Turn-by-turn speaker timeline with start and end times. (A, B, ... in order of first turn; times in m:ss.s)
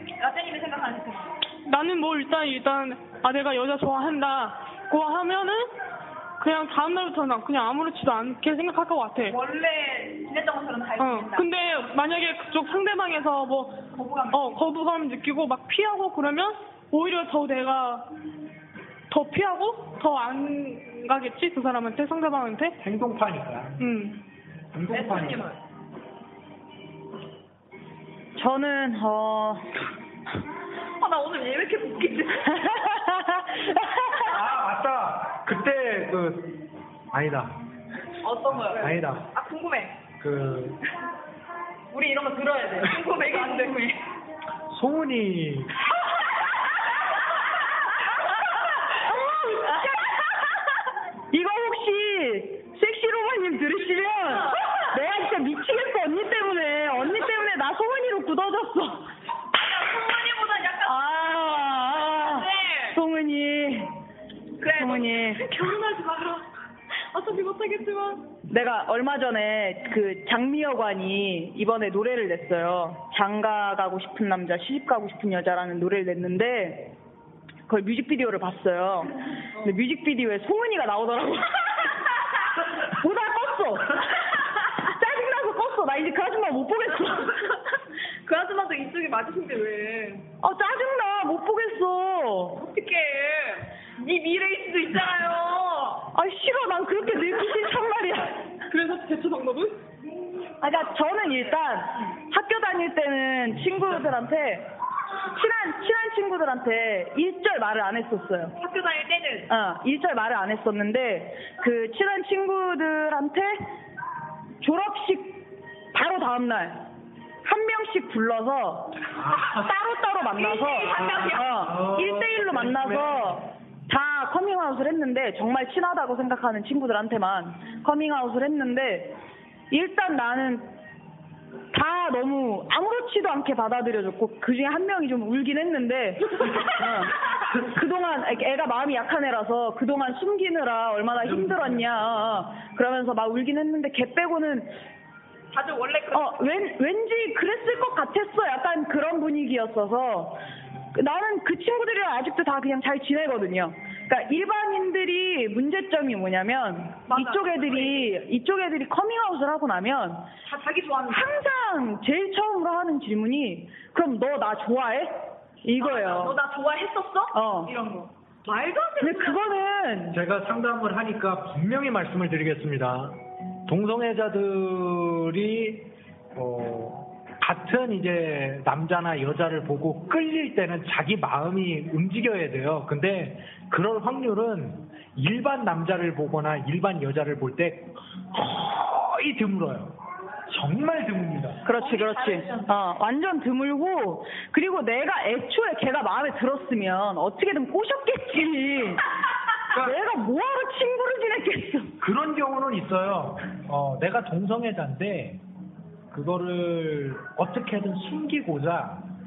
0:00.2-0:01.4 A
0:01.6-0:05.7 B
0:06.4-0:09.4 B
0:09.2-0:11.5 A
0:11.0-0:18.1 B
0:13.9-0:14.6 A
0:19.1-0:22.8 B
0:22.8-0:23.9 C
0:23.8-0:24.2 B
0:24.7-0:25.5 C
0:24.9-0:25.6 A
0:28.4-0:29.7 D
0:31.0-0:33.0 A
0:34.2-0:37.6 C
0:38.2-0:40.0 A
0:38.5-0:39.3 C
0:40.2-0:40.8 C
0:41.9-0:43.9 D
0:42.8-0:44.0 A
0:44.7-0:45.8 C
0:49.1-0:49.8 D
0:51.3-0:59.1 D
0:59.6-1:01.0 A
1:00.8-1:03.9 D
1:02.1-1:03.0 A
1:04.6-1:06.4 A
1:04.7-1:05.5 D
1:07.1-1:08.3 A
1:08.5-1:16.9 D
1:17.7-1:21.9 D
1:22.8-1:27.5 D
1:28.2-1:30.2 A
1:30.4-1:32.6 D
1:32.6-1:36.1 A
1:36.1-1:38.5 D
1:38.7-1:39.8 B
1:40.6-1:44.7 D
1:40.7-1:41.3 A
1:45.3-1:48.5 D
1:48.6-1:49.5 A
1:49.5-1:53.7 D
1:54.6-1:56.8 D
1:57.4-2:09.2 D
1:59.1-1:59.7 C
2:00.3-2:01.7 A
2:00.8-2:03.4 C
2:09.7-2:10.8 D
2:11.7-2:24.8 D
2:21.2-2:22.0 C
2:25.5-2:26.4 A
2:26.1-2:30.4 D
2:30.9-2:40.3 D
2:37.1-2:38.1 A
2:40.4-2:41.4 A
2:41.1-2:46.4 D
2:45.8-2:49.5 A
2:47.3-2:47.7 D
2:49.0-2:50.2 D
2:50.1-3:11.6 C
3:11.6-3:19.0 D
3:11.7-3:12.7 A
3:19.7-3:20.0 C
3:19.7-3:21.9 D
3:22.0-3:25.4 C
3:26.1-3:29.1 C